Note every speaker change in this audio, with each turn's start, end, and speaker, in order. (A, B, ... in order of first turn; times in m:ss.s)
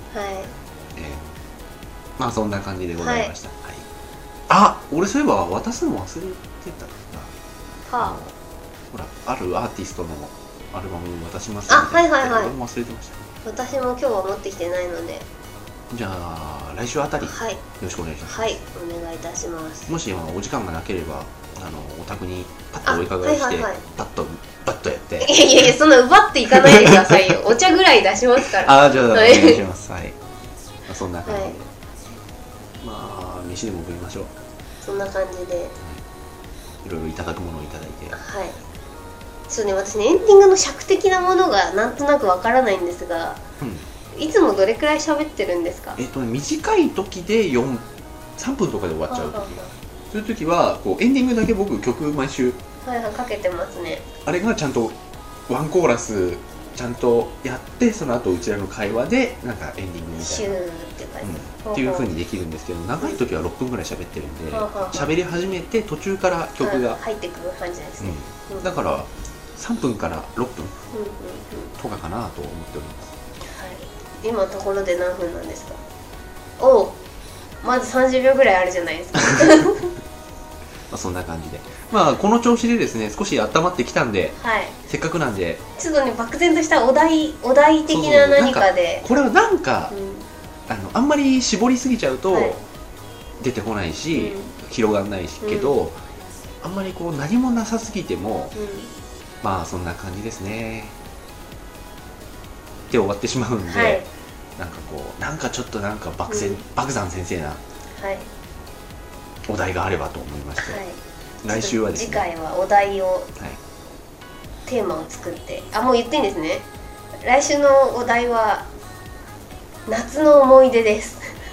0:00.1-0:00.5 A
0:01.0-0:01.3 B
0:02.2-0:03.9 B
0:03.0-0:03.3 A
0:04.5-0:07.3 B
0:07.9-0:08.2 A
0:08.0-0:08.3 B
0:08.9-0:13.2 B
0:11.7-0:12.5 A
0:13.4-0:15.3 A
0:15.9-0:18.5 B
0:17.2-0:17.6 A
0:18.3-0:19.9 A
0:19.9-0:25.7 B
0:22.8-0:23.8 A
0:25.2-0:29.6 A
0:26.5-0:27.4 B
0:28.4-0:30.2 B
0:30.9-0:31.7 B
0:31.2-0:31.6 A
0:32.8-0:34.3 B
0:34.8-0:35.8 A
0:36.8-0:38.2 B
0:38.1-0:38.6 A
0:39.5-0:43.4 A
0:43.6-0:43.9 B
0:44.2-0:46.0 A
0:46.0-0:52.6 B
0:49.1-0:49.7 A
0:52.8-0:54.1 A
0:54.2-0:55.0 B
0:55.5-1:00.6 B
1:00.2-1:02.1 A
1:01.2-1:07.0 B
1:04.5-1:05.1 A
1:06.6-1:08.8 A
1:08.0-1:10.8 B
1:10.9-1:11.8 A
1:11.8-1:13.1 B
1:13.5-1:15.8 A
1:16.6-1:17.0 A
1:17.6-1:20.0 A
1:20.9-1:25.6 B
1:24.4-1:24.8 A
1:25.8-1:29.1 A
1:27.9-1:29.9 B
1:29.9-1:30.3 A
1:30.7-1:32.6 B
1:32.3-1:32.6 A
1:33.4-1:36.0 B
1:34.1-1:34.6 A
1:35.4-1:35.8 A
1:36.6-1:38.6 B
1:38.6-1:38.9 A
1:39.4-1:41.0 B
1:42.9-1:44.0 B
1:43.7-1:44.1 A
1:44.6-1:47.6 B
1:46.3-1:46.6 A
1:48.0-1:48.3 A
1:49.5-1:50.8 B
1:50.6-1:53.3 A
1:51.4-1:52.3 B
1:54.7-1:56.6 A
1:57.2-1:58.7 A
1:59.9-2:01.3 A